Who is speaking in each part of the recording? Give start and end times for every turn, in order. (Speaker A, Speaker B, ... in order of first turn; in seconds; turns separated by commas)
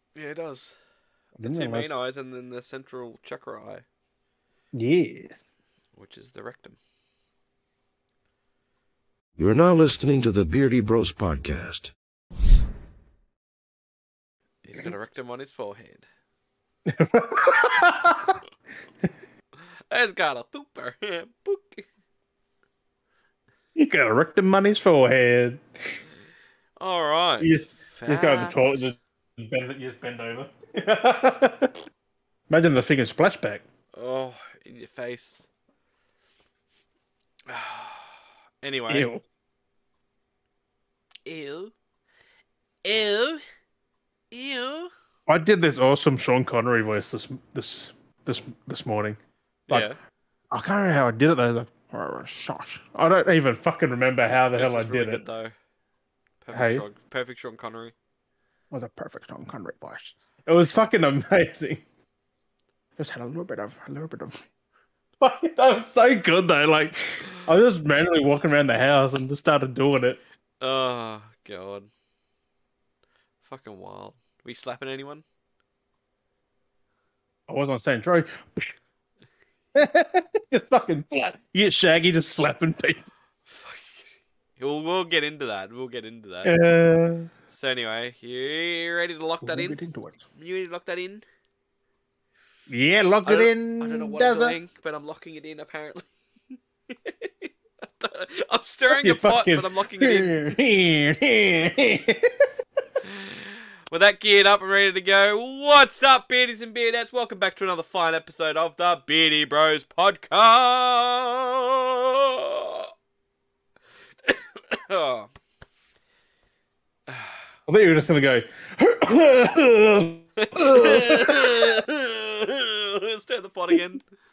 Speaker A: 0.1-0.8, Speaker B: 1.4-1.9, Speaker A: 1.4-3.9, Speaker B: 4.7-5.4, Speaker A: 6.0-6.8, Speaker C: 9.4-11.9, Speaker A: 14.6-16.1, Speaker B: 16.9-18.4, Speaker A: 19.9-21.9, Speaker B: 23.8-25.6, Speaker A: 26.8-28.8, Speaker B: 27.4-31.8, Speaker B: 32.5-33.6, Speaker A: 33.9-35.5, Speaker A: 37.5-39.1, Speaker B: 38.9-39.2, Speaker A: 41.3-41.7, Speaker A: 42.8-43.4, Speaker A: 44.3-44.9, Speaker B: 45.3-49.2, Speaker A: 49.7-50.0, Speaker B: 50.5-55.2, Speaker A: 54.3-55.5, Speaker A: 56.4-57.9, Speaker B: 56.5-56.9, Speaker B: 58.7-61.8, Speaker B: 63.0-64.4, Speaker B: 65.2-70.2, Speaker A: 70.6-71.9, Speaker A: 73.4-75.2, Speaker B: 77.5-78.7, Speaker B: 79.8-83.0, Speaker A: 83.5-84.0, Speaker A: 84.6-86.5, Speaker B: 86.4-87.3, Speaker A: 87.5-89.8, Speaker B: 89.4-90.2, Speaker A: 90.3-91.2, Speaker B: 92.7-94.6, Speaker A: 93.3-96.1, Speaker A: 96.9-100.4, Speaker B: 98.9-102.3, Speaker A: 103.0-112.9, Speaker A: 114.2-115.3, Speaker A: 117.1-117.4, Speaker B: 117.7-121.8, Speaker A: 120.4-124.0